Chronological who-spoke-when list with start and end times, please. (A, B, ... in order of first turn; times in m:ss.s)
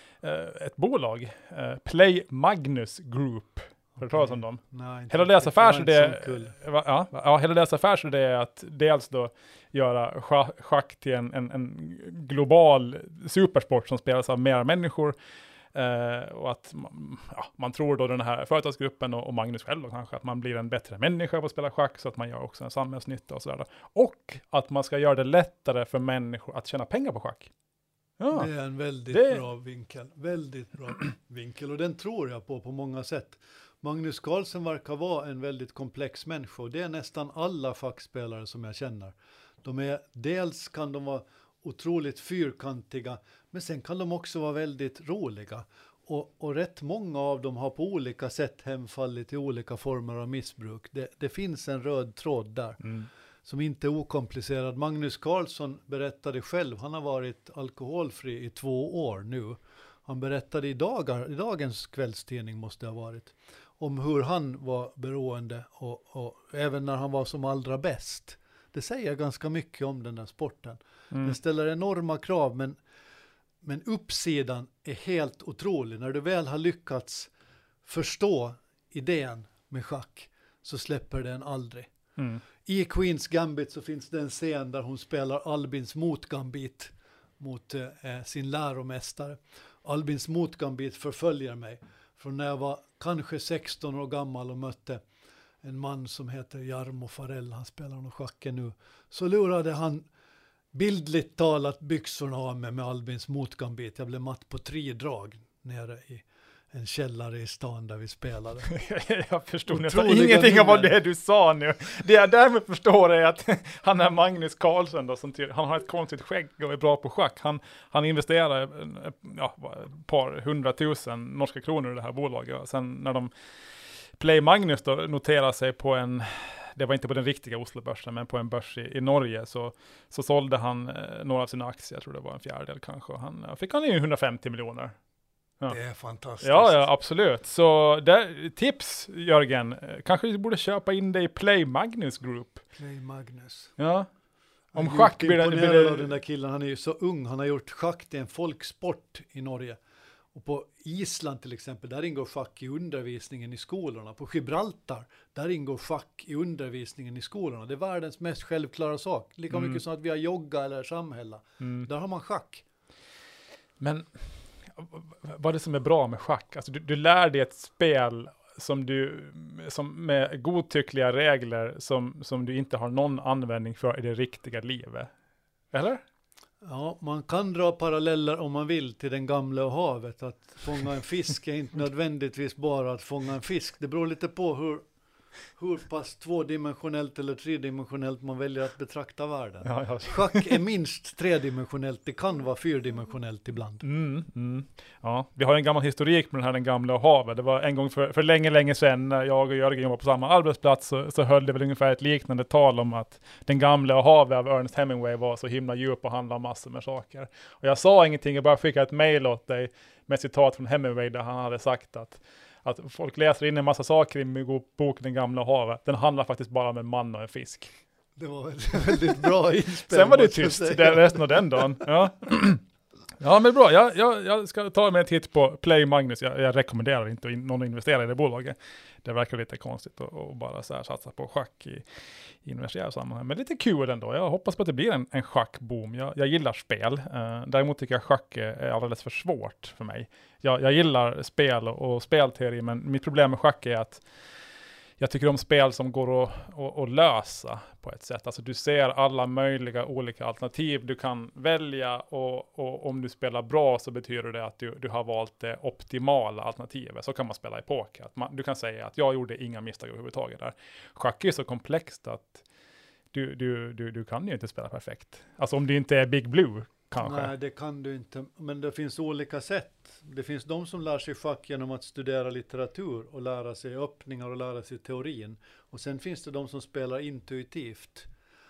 0:00.2-0:15.1 A
0:04.0-0:06.6 B
0:15.7-0:27.5 A
0:28.2-0:28.5 A
0:28.3-0:52.8 B
0:29.1-0:29.4 A
0:52.8-0:53.1 A
0:53.4-1:12.8 B
1:13.6-1:17.3 B
1:17.8-1:21.9 B
1:22.2-1:22.4 A
1:22.6-1:35.0 B
1:35.6-1:40.1 B
1:40.7-1:48.7 B
1:48.7-2:03.3 A
1:49.7-1:50.9 B
2:04.2-2:15.0 A
2:15.7-2:16.8 B
2:16.4-2:22.6 A
2:22.8-2:23.7 B
2:23.8-2:24.1 A
2:24.7-2:26.1 A
2:24.7-2:29.8 B
2:30.3-2:42.6 B
2:39.5-2:39.8 A
2:41.6-2:41.9 A
2:43.8-2:55.1 A
2:55.7-2:56.0 A
2:56.6-3:04.9 B
3:05.6-3:13.8 B
3:09.6-3:10.6 A
3:13.8-3:37.7 A
3:38.2-3:41.7 B
3:39.2-3:42.6 A
3:43.2-3:51.8 A
3:52.4-4:04.0 A
4:05.0-4:22.4 A
4:23.1-4:27.3 A
4:27.0-4:38.1 B